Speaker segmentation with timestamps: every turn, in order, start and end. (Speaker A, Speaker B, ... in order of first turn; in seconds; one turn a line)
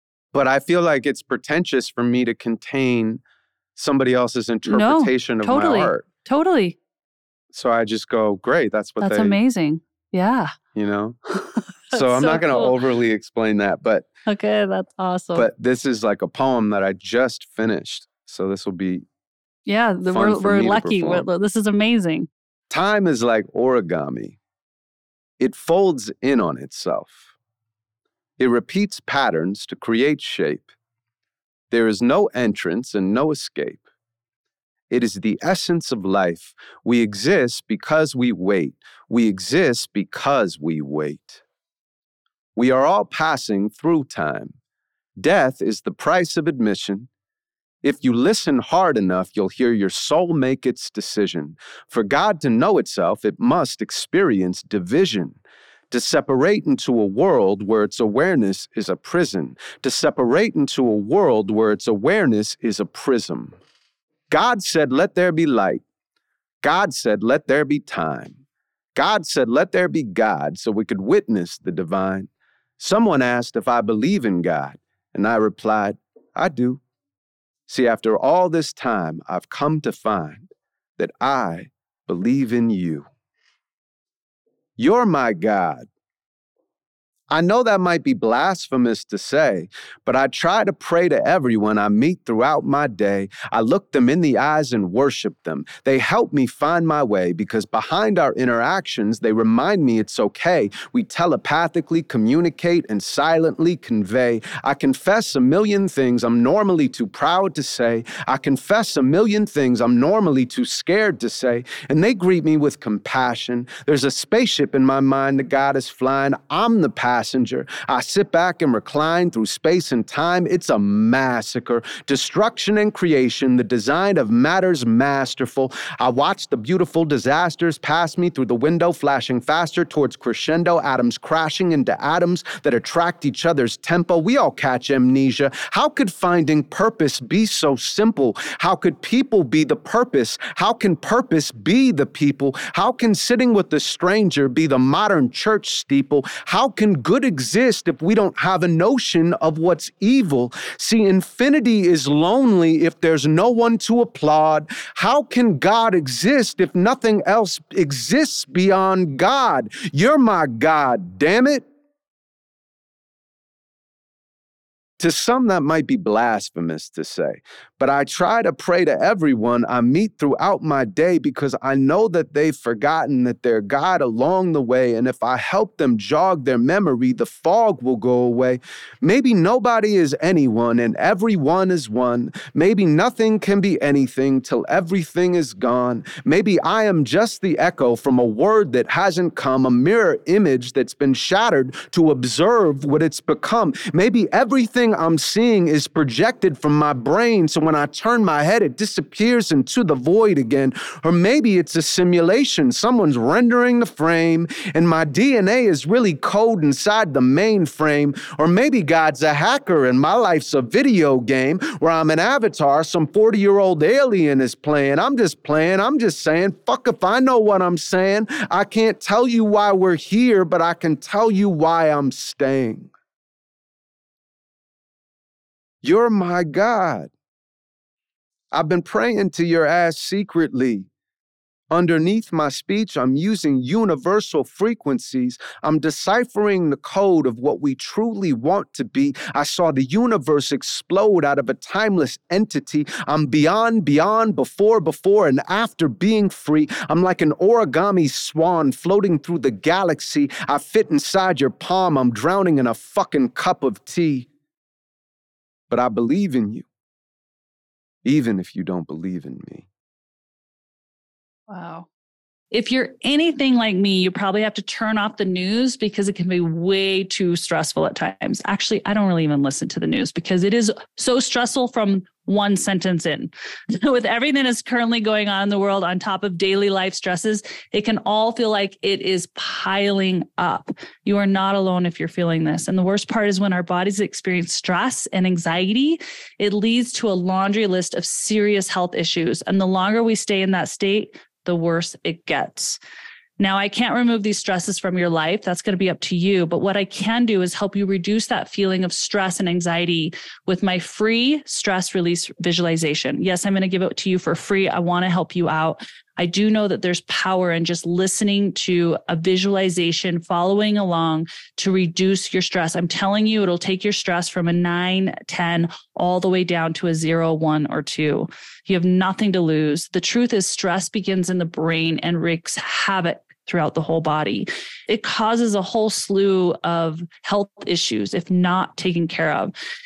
Speaker A: 0.3-3.2
Speaker A: 3.8-6.1
Speaker B: 4.7-6.8
Speaker A: 7.5-9.4
Speaker B: 9.0-10.5
Speaker A: 10.7-11.2
Speaker B: 11.3-12.7
Speaker A: 11.9-14.1
Speaker B: 14.3-15.5
Speaker A: 15.3-19.1
Speaker B: 19.6-22.3
Speaker A: 20.1-21.3
Speaker A: 22.7-24.4
Speaker A: 25.4-27.2
Speaker A: 28.4-30.7
Speaker A: 31.7-33.8
Speaker A: 34.9-41.4
Speaker A: 42.6-44.6
Speaker A: 45.2-47.1
Speaker A: 47.8-55.4
Speaker A: 55.9-63.6
Speaker A: 64.3-65.8
Speaker A: 66.6-68.4
Speaker A: 68.9-76.8
Speaker A: 77.7-83.1
Speaker A: 84.8-85.9
Speaker A: 87.3-161.6
Speaker A: 165.0-222.9
Speaker A: 225.8-227.1
Speaker A: 228.5-230.9
Speaker A: 231.7-254.3
Speaker A: 255.7-256.6
Speaker A: 258.0-259.7
Speaker B: 261.5-261.9
Speaker B: 262.5-292.8
Speaker B: 293.4-329.5